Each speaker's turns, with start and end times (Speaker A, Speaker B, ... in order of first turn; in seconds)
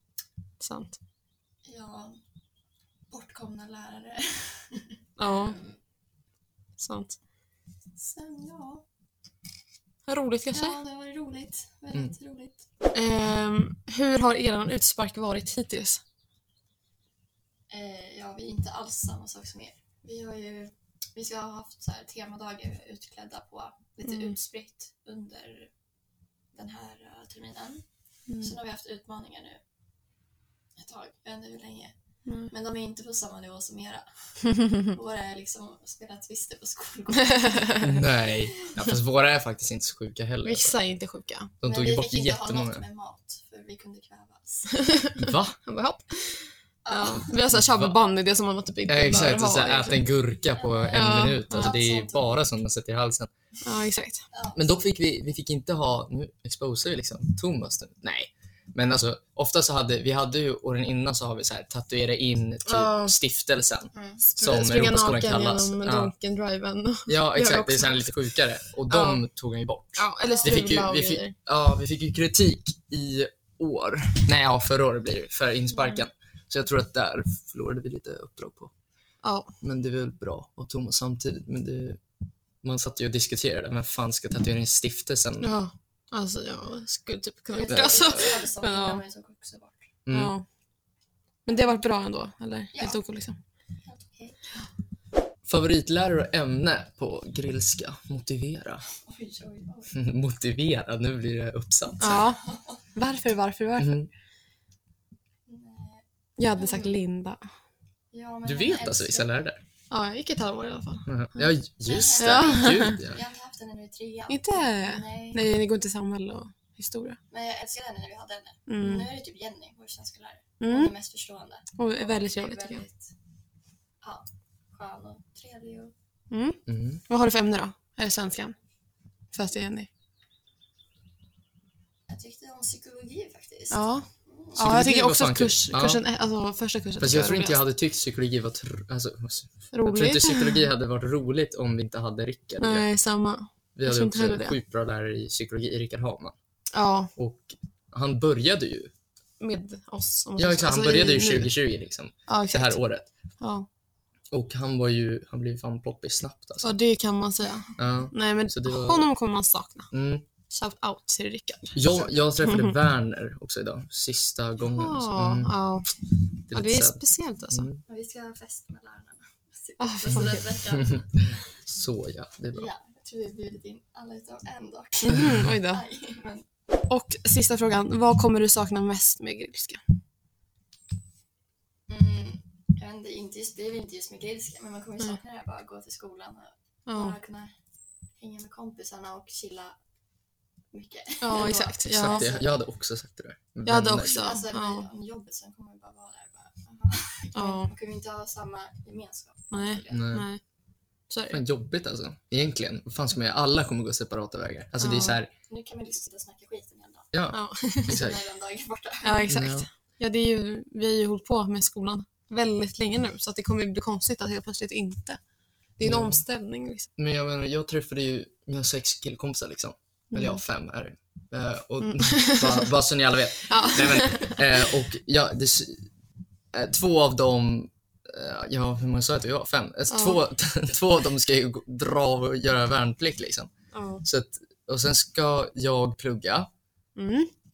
Speaker A: 0.6-1.0, 5.2-5.6, 6.8-7.2, 10.1-10.8, 12.9-16.0, 24.0-24.4, 28.3-28.5, 32.3-32.5, 37.2-38.0, 40.4-41.5, 44.7-50.0, 50.9-51.7, 53.6-54.2, 62.6-63.1, 64.3-68.0, 68.9-69.2, 70.0-71.3, 79.2-79.5, 85.4-89.0, 90.1-90.4, 91.5-93.4, 102.0-102.4, 102.9-104.0, 106.4-107.4, 109.9-111.5, 112.2-113.0, 114.3-117.2, 118.7-119.1, 120.6-120.9, 121.8-122.8, 126.3-128.5, 129.3-129.9, 133.7-137.6, 139.7-140.7, 142.6-144.6, 146.7-147.1, 149.4-151.5, 152.3-152.8, 153.4-153.7, 156.6-159.9, 160.5-161.8, 162.4-162.7, 164.7-165.9, 166.5-167.7, 169.8-170.5, 175.0-175.8, 176.9-179.8, 186.9-187.2, 191.2-192.3, 193.7-194.9, 197.3-197.7, 199.5-200.4, 201.1-201.4, 204.8-205.2, 207.3-208.1, 209.0-215.2, 215.8-216.9, 220.1-220.4, 221.8-222.7, 223.5-224.5, 229.9-230.2, 233.7-234.0, 236.9-237.3
Speaker B: 1.6-2.2, 3.1-5.7, 8.0-8.8, 10.5-12.6, 17.7-25.7, 26.5-27.8, 28.4-29.6, 30.8-31.9, 32.5-34.1, 34.8-38.0, 41.6-44.9, 46.8-47.4, 50.5-52.3, 63.9-64.2, 87.5-89.9, 92.7-93.0, 93.8-94.4, 98.9-99.9, 102.1-102.8, 105.5-106.9, 108.1-109.4, 111.9-115.4, 117.3-123.1, 124.0-125.9, 132.1-134.6, 167.9-171.2, 172.5-176.4, 181.9-187.5, 188.2-189.8, 190.7-192.5, 194.0-200.1, 205.4-207.1, 207.9-209.3
Speaker C: 37.8-40.7, 41.6-42.8, 45.2-45.6, 47.5-48.0, 48.9-53.3, 54.5-66.1, 67.1-78.7, 79.6-82.0, 82.6-85.5, 87.7-88.2, 90.0-90.3, 95.5-98.8, 99.9-102.3, 103.8-104.1, 108.4-109.6, 111.1-113.2, 126.7-127.0, 134.6-136.0, 137.0-142.9, 143.8-146.3, 147.2-148.9, 150.4-153.1, 154.3-156.7, 157.8-159.1, 159.9-160.2, 161.7-165.5, 166.5-167.8, 170.7-172.7, 175.1-175.4, 191.9-194.2, 199.9-200.3, 201.3-205.3, 207.1-208.2, 209.3-209.7, 215.8-216.2, 217.0-225.9, 226.5-233.5, 234.0-236.5